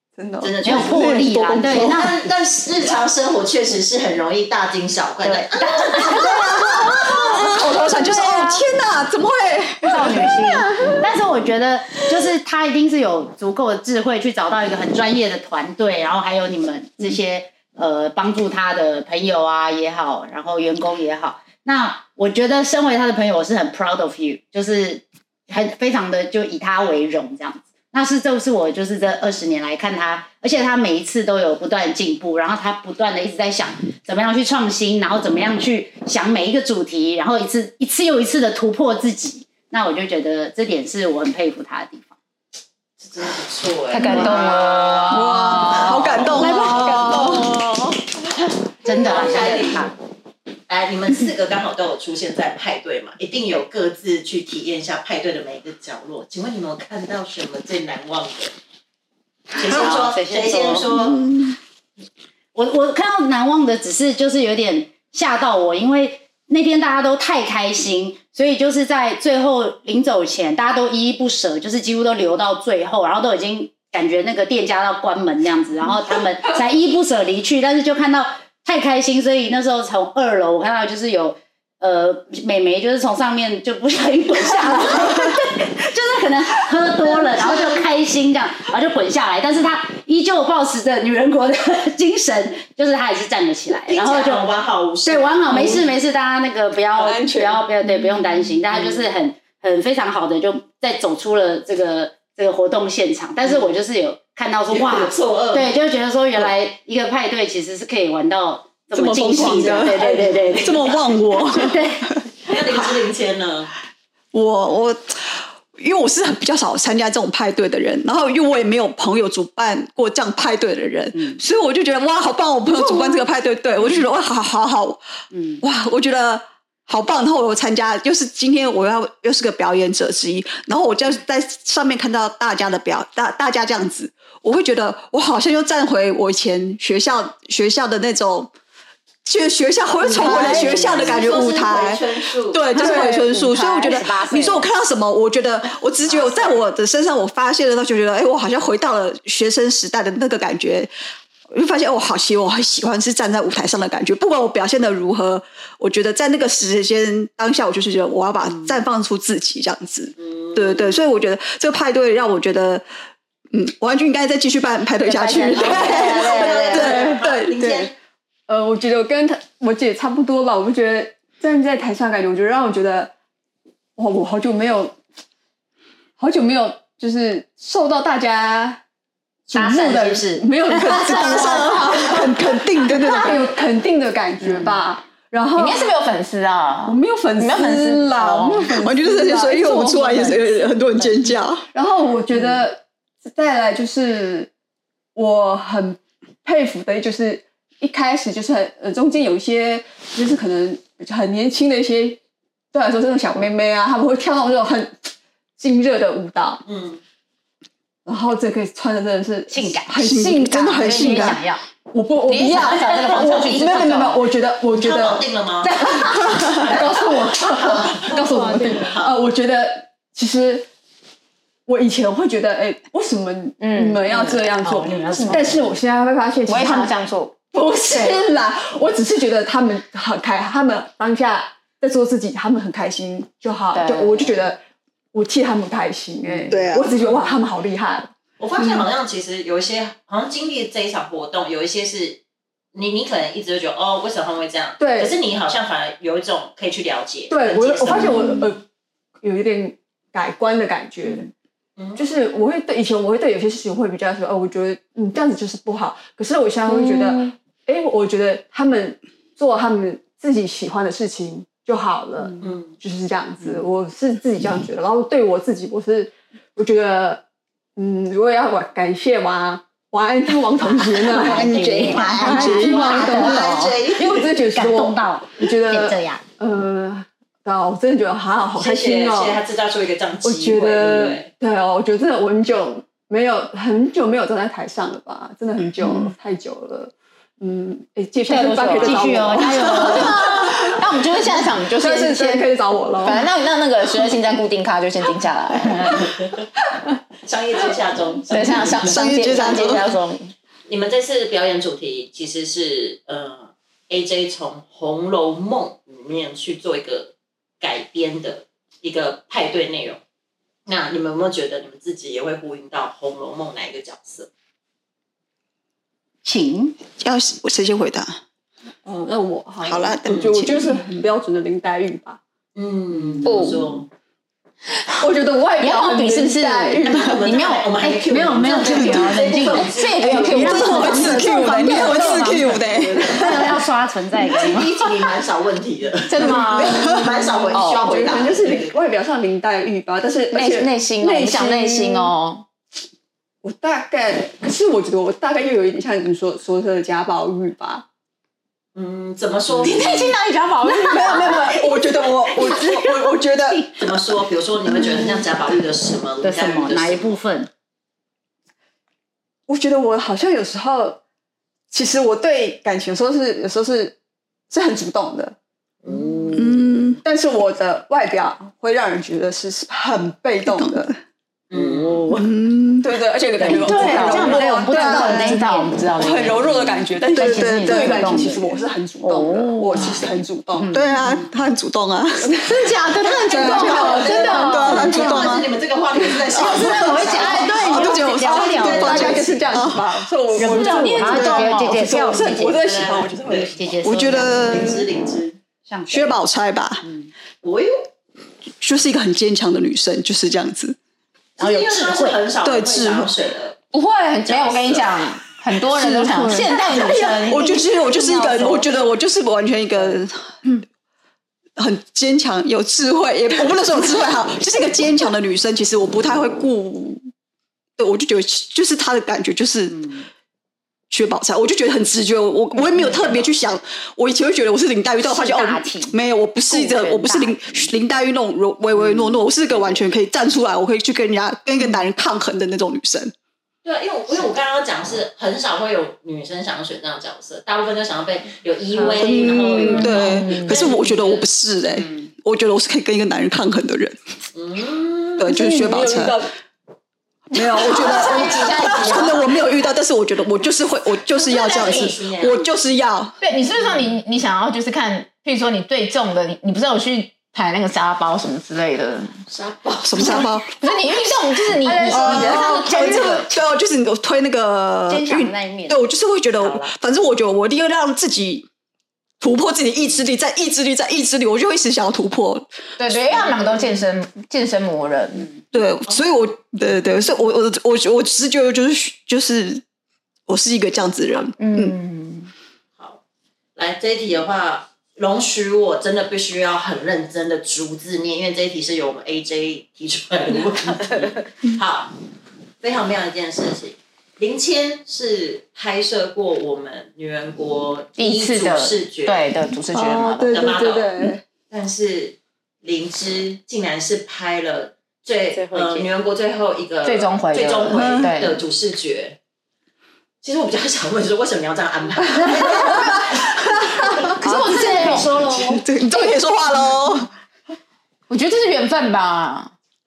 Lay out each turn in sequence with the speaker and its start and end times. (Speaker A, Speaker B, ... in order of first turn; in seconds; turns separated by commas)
Speaker A: 0.2-2.1, Speaker B: 0.4-7.1, Speaker C: 0.6-2.2, Speaker C: 5.2-6.1, Speaker D: 6.1-10.3, Speaker C: 8.0-8.6, Speaker C: 9.8-42.1, Speaker B: 43.0-47.0, Speaker E: 43.9-46.5, Speaker D: 45.1-47.5, Speaker A: 45.4-45.8, Speaker C: 46.4-47.0, Speaker A: 46.5-47.4, Speaker B: 48.8-49.9, Speaker C: 48.8-49.9, Speaker B: 50.7-58.5, Speaker B: 59.5-61.2, Speaker C: 59.6-60.9, Speaker D: 60.9-61.6, Speaker C: 62.5-94.5, Speaker B: 93.9-95.9, Speaker C: 95.0-111.0, Speaker A: 97.0-97.7, Speaker B: 104.7-105.7, Speaker D: 108.9-111.8, Speaker A: 109.3-110.4, Speaker B: 110.6-111.0, Speaker C: 111.5-112.1, Speaker B: 112.5-113.7, Speaker D: 114.3-125.0, Speaker C: 121.2-121.4, Speaker C: 125.3-125.6, Speaker D: 125.6-138.5, Speaker D: 139.2-150.9, Speaker A: 140.1-140.9, Speaker C: 140.1-141.2, Speaker B: 140.1-142.7, Speaker A: 142.8-143.3, Speaker C: 142.8-144.7, Speaker B: 146.1-146.5, Speaker D: 151.5-162.8, Speaker B: 160.2-161.0, Speaker D: 163.5-167.8, Speaker C: 165.0-167.0, Speaker B: 165.6-167.9, Speaker A: 167.0-167.9, Speaker A: 168.5-173.1, Speaker A: 174.0-175.0, Speaker A: 176.2-178.8, Speaker A: 179.5-185.9, Speaker C: 179.5-180.5, Speaker E: 180.7-182.3, Speaker D: 180.8-183.4, Speaker C: 184.4-184.8, Speaker E: 185.6-188.8, Speaker A: 186.8-190.5, Speaker D: 188.8-191.6, Speaker A: 191.7-194.5, Speaker A: 195.2-202.2, Speaker A: 202.7-206.6, Speaker B: 206.7-207.0, Speaker A: 208.1-211.4, Speaker C: 209.5-211.6, Speaker D: 210.0-211.4, Speaker A: 211.9-220.7, Speaker E: 212.3-214.2, Speaker B: 214.7-216.8, Speaker B: 217.6-218.2, Speaker B: 218.8-219.1, Speaker A: 221.7-226.9, Speaker E: 223.6-224.6, Speaker C: 224.2-225.7, Speaker E: 225.1-225.4, Speaker E: 226.5-227.4, Speaker A: 227.5-234.6, Speaker E: 227.9-228.2, Speaker E: 233.7-234.4, Speaker A: 235.1-238.1, Speaker D: 236.5-236.9, Speaker B: 237.0-237.3, Speaker B: 238.4-242.2, Speaker B: 242.8-248.4, Speaker A: 244.8-245.1, Speaker A: 247.3-248.6, Speaker A: 249.2-251.3, Speaker B: 251.8-252.2, Speaker A: 252.0-267.2, Speaker B: 262.4-262.8, Speaker A: 267.8-279.4, Speaker C: 270.6-276.2, Speaker D: 271.4-272.7, Speaker B: 271.9-274.3, Speaker B: 278.6-281.3, Speaker A: 280.2-293.3, Speaker E: 288.3-296.1, Speaker C: 288.8-290.2, Speaker B: 297.2-299.4, Speaker E: 298.3-300.3, Speaker D: 298.8-299.9, Speaker B: 300.7-310.0, Speaker B: 310.7-314.3, Speaker C: 316.2-316.8, Speaker D: 317.0-318.2, Speaker A: 318.9-322.2, Speaker D: 319.6-320.7, Speaker B: 320.1-320.3, Speaker B: 322.6-323.9, Speaker C: 323.0-323.4, Speaker E: 323.2-323.8, Speaker E: 324.9-327.8, Speaker A: 325.0-327.3, Speaker B: 326.8-331.0, Speaker C: 327.8-332.3, Speaker E: 329.7-332.5, Speaker A: 330.1-333.6, Speaker D: 330.2-333.3, Speaker C: 333.0-334.7, Speaker B: 334.3-338.8, Speaker E: 336.1-338.2, Speaker A: 336.2-342.1, Speaker E: 340.3-342.4, Speaker A: 343.4-347.9, Speaker B: 348.8-349.9, Speaker E: 349.6-351.8, Speaker A: 350.6-353.7, Speaker B: 353.8-357.1, Speaker C: 356.2-357.5, Speaker A: 359.5-361.0, Speaker A: 361.7-364.0, Speaker A: 364.5-365.4, Speaker B: 365.8-366.4, Speaker C: 365.9-366.5, Speaker D: 366.3-367.0, Speaker A: 367.0-370.9, Speaker D: 370.4-371.0, Speaker B: 371.5-372.1, Speaker D: 372.1-373.0, Speaker A: 372.8-375.4, Speaker E: 373.4-376.8, Speaker C: 373.4-376.3, Speaker A: 376.0-380.7, Speaker D: 377.1-378.1, Speaker C: 377.1-380.0, Speaker E: 379.3-380.1, Speaker C: 380.6-381.3, Speaker D: 380.7-382.4, Speaker A: 382.2-384.5, Speaker E: 382.5-385.3, Speaker B: 383.1-389.4, Speaker D: 383.4-385.5, Speaker D: 386.3-390.0, Speaker C: 386.4-389.5, Speaker A: 387.7-393.8, Speaker C: 390.4-392.6, Speaker E: 390.4-392.1, Speaker D: 391.1-391.8, Speaker B: 392.1-393.6, Speaker C: 393.5-394.4, Speaker D: 393.8-394.9, Speaker B: 394.2-395.4, Speaker C: 395.7-396.2, Speaker D: 395.9-396.8, Speaker C: 396.8-397.1, Speaker B: 397.4-397.9, Speaker D: 398.6-400.8, Speaker B: 401.4-403.6, Speaker C: 401.4-402.2, Speaker D: 402.4-403.1, Speaker E: 403.7-407.6, Speaker B: 404.3-404.9, Speaker D: 405.7-406.4, Speaker A: 406.0-407.3, Speaker D: 407.1-410.6, Speaker C: 408.0-408.6, Speaker D: 411.6-417.0, Speaker D: 417.8-419.9, Speaker C: 419.7-420.1, Speaker D: 420.9-433.1, Speaker C: 422.8-423.3, Speaker C: 425.0-425.9, Speaker C: 426.5-427.7, Speaker B: 433.6-441.3, Speaker C: 438.8-440.2, Speaker D: 439.0-444.0, Speaker E: 439.6-440.6, Speaker C: 441.8-442.1, Speaker B: 444.4-445.3, Speaker D: 445.2-446.2, Speaker A: 445.2-446.3, Speaker D: 447.3-453.2, Speaker E: 447.5-449.4, Speaker B: 448.0-449.1, Speaker B: 451.1-452.4, Speaker E: 453.2-459.2, Speaker B: 459.3-460.3, Speaker D: 459.8-460.5, Speaker E: 460.6-463.3, Speaker C: 461.6-463.2, Speaker D: 461.9-468.5, Speaker C: 464.9-465.8, Speaker D: 469.2-473.1, Speaker E: 472.8-475.3, Speaker D: 475.5-479.6, Speaker D: 480.3-481.8, Speaker E: 481.4-482.3, Speaker B: 483.6-491.9, Speaker C: 490.7-491.1, Speaker B: 492.6-499.2, Speaker E: 498.0-500.6, Speaker A: 499.7-501.2, Speaker B: 500.3-500.9, Speaker B: 501.5-509.2, Speaker C: 505.3-505.9, Speaker E: 506.8-508.4, Speaker D: 507.7-508.1, Speaker B: 510.2-513.6, Speaker C: 512.2-512.7, Speaker E: 514.2-515.1, Speaker C: 514.3-515.6, Speaker D: 515.4-517.1, Speaker E: 518.1-519.5